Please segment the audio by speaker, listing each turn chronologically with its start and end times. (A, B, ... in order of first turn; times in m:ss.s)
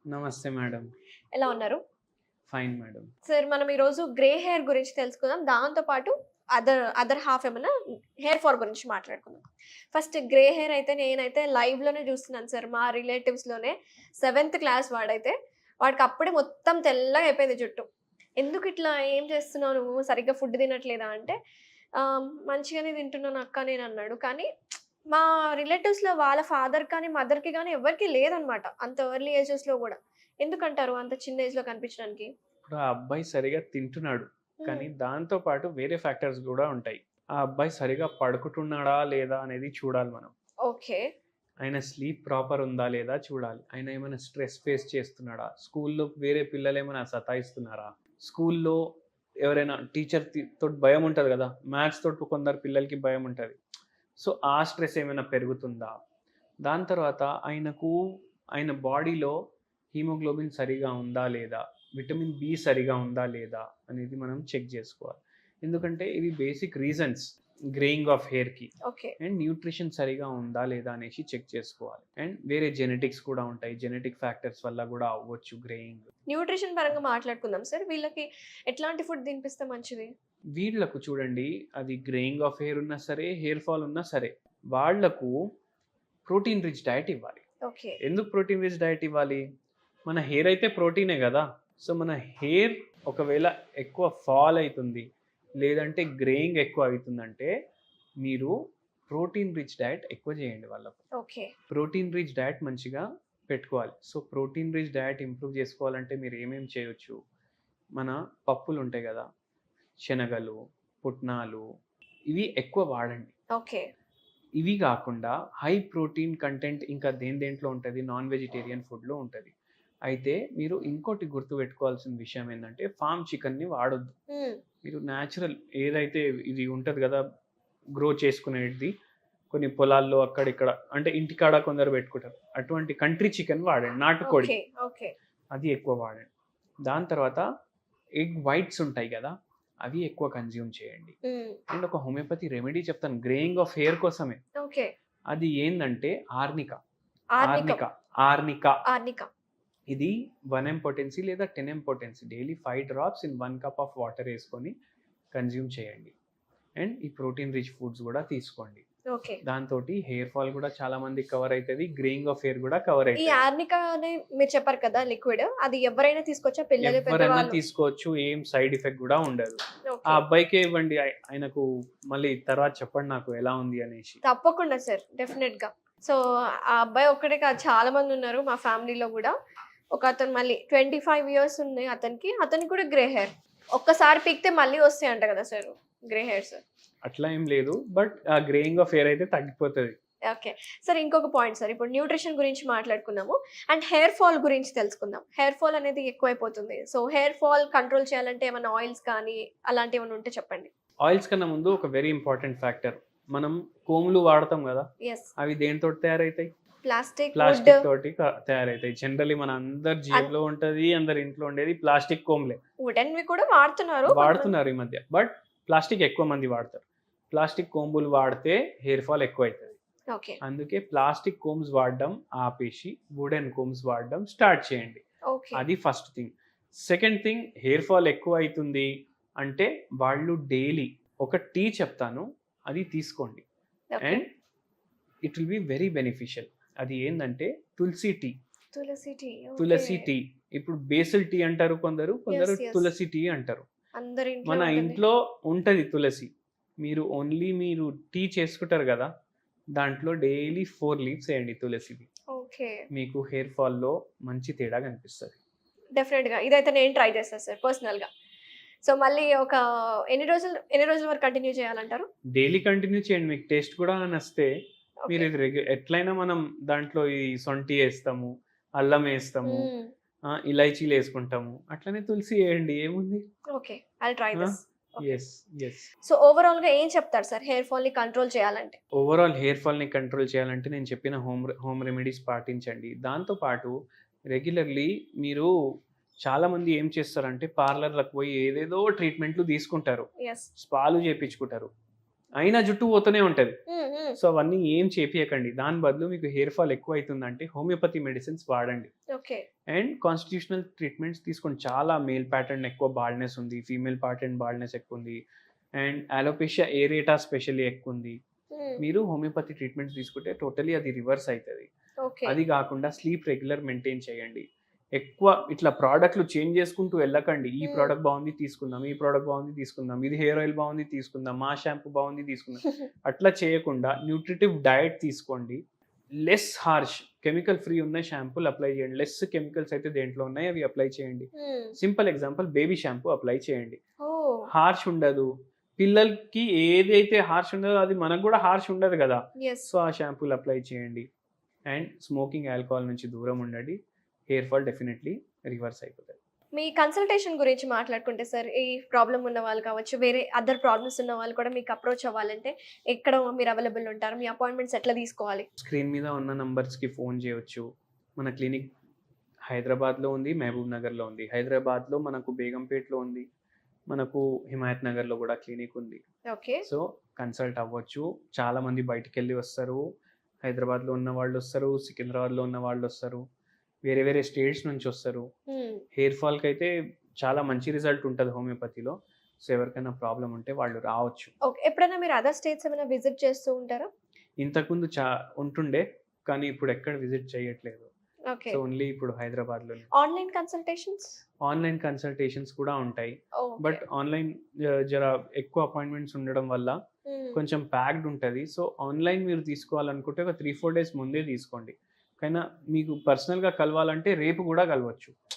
0:00.1-0:00.9 A
0:01.3-0:01.8 B
0:02.5-0:03.1 A
0:03.3-0:07.7 B
0:08.2-0:17.9 B
0:18.4-0:21.4 B
0:22.0-0:24.5 B
0:25.1-0:32.3 B
0:32.7-0:40.3 A
0:34.6-0:34.9 B
0:40.6-0:41.0 B
0:41.6-0:48.8 A
0:49.4-0:53.6 A
0:54.2-0:56.0 A
0:56.6-0:58.0 A
0:58.6-0:59.4 A
0:59.9-1:16.1 A
1:08.8-1:09.2 B
1:16.3-1:20.1 B
1:20.6-1:25.3 A
1:26.3-1:27.4 A
1:27.7-1:28.0 B
1:28.0-1:29.4 A
1:30.1-1:35.0 A
1:35.6-1:37.5 A
1:38.2-1:38.5 A
1:39.1-1:41.0 A
1:41.2-1:41.5 B
1:41.7-1:47.2 A
1:48.0-1:49.2 A
1:50.1-1:51.6 A
1:52.3-1:53.3 A
1:53.6-1:53.8 B
1:54.6-1:59.5 A
2:00.1-2:04.1 A
2:04.3-2:04.6 B
2:04.8-2:07.2 A
2:08.0-2:08.9 A
2:09.5-2:14.5 A
2:14.2-2:15.1 B
2:15.5-2:16.3 A
2:16.9-2:17.4 A
2:18.2-2:19.3 A
2:19.8-2:21.2 A
2:21.2-2:21.6 B
2:21.7-2:24.4 A
2:24.6-2:24.9 B
2:25.3-2:26.8 A
2:27.4-2:27.8 B
2:27.4-2:28.8 A
2:28.9-2:29.3 B
2:29.9-2:34.8 A
2:35.3-2:36.1 A
2:36.8-2:38.8 A
2:39.1-2:39.4 B
2:39.4-2:43.4 A
2:43.2-2:47.6 B
2:46.8-2:54.2 A
2:49.9-2:50.2 B
2:54.2-2:56.2 B
2:56.7-2:59.3 B
2:59.9-3:06.6 B
3:07.0-3:10.0 A
3:10.3-3:20.7 B
3:21.0-3:24.9 A
3:25.0-3:25.3 B
3:25.4-3:26.5 A
3:26.9-3:27.8 B
3:27.4-3:32.6 A
3:32.8-3:34.5 B
3:34.1-3:39.8 A
3:40.1-3:40.4 B
3:40.4-3:45.0 A
3:45.3-3:45.6 B
3:45.6-3:48.9 A
3:49.4-3:53.4 A
3:53.9-3:54.2 B
3:55.2-3:58.3 A
3:58.8-4:00.1 B
3:59.6-4:03.6 A
4:02.3-4:02.9 B
4:04.0-4:05.0 B
4:04.4-4:06.3 A
4:06.8-4:09.1 A
4:09.8-4:12.1 A
4:12.3-4:12.8 B
4:12.9-4:15.4 A
4:16.0-4:18.1 B
4:18.8-4:22.1 B
4:22.4-4:24.5 A
4:25.1-4:29.7 A
4:29.4-4:29.9 B
4:30.3-4:33.2 A
4:33.6-4:35.2 B
4:34.4-4:35.9 A
4:36.1-4:38.8 B
4:39.0-4:43.7 A
4:44.3-4:45.5 A
4:46.2-4:51.7 A
4:50.2-4:50.5 B
4:52.4-4:53.6 A
4:53.7-4:54.2 B
4:54.2-4:58.9 A
4:59.1-4:59.4 B
4:59.7-5:05.2 A
5:05.8-5:08.2 A
5:08.5-5:08.8 B
5:08.8-5:11.7 A
5:12.0-5:12.4 B
5:12.3-5:25.6 A
5:17.6-5:17.9 B
5:26.2-5:33.8 A
5:31.4-5:31.8 B
5:34.0-5:34.5 B
5:34.5-5:41.1 A
5:39.4-5:39.7 B
5:41.7-5:43.8 A
5:44.3-5:46.2 A
5:46.6-5:55.5 B
5:55.6-5:57.6 A
5:58.2-5:58.7 A
5:59.5-6:03.3 A
6:03.9-6:06.0 A
6:06.3-6:06.6 B
6:06.6-6:09.8 A
6:10.4-6:13.2 A
6:13.8-6:15.3 A
6:15.5-6:15.8 B
6:16.0-6:21.3 A
6:21.4-6:23.9 B
6:24.4-6:27.9 A
6:28.3-6:28.6 B
6:28.5-6:29.9 A
6:29.9-6:31.1 B
6:31.4-6:36.8 A
6:33.4-6:33.8 B
6:37.1-6:37.4 B
6:37.4-6:45.2 A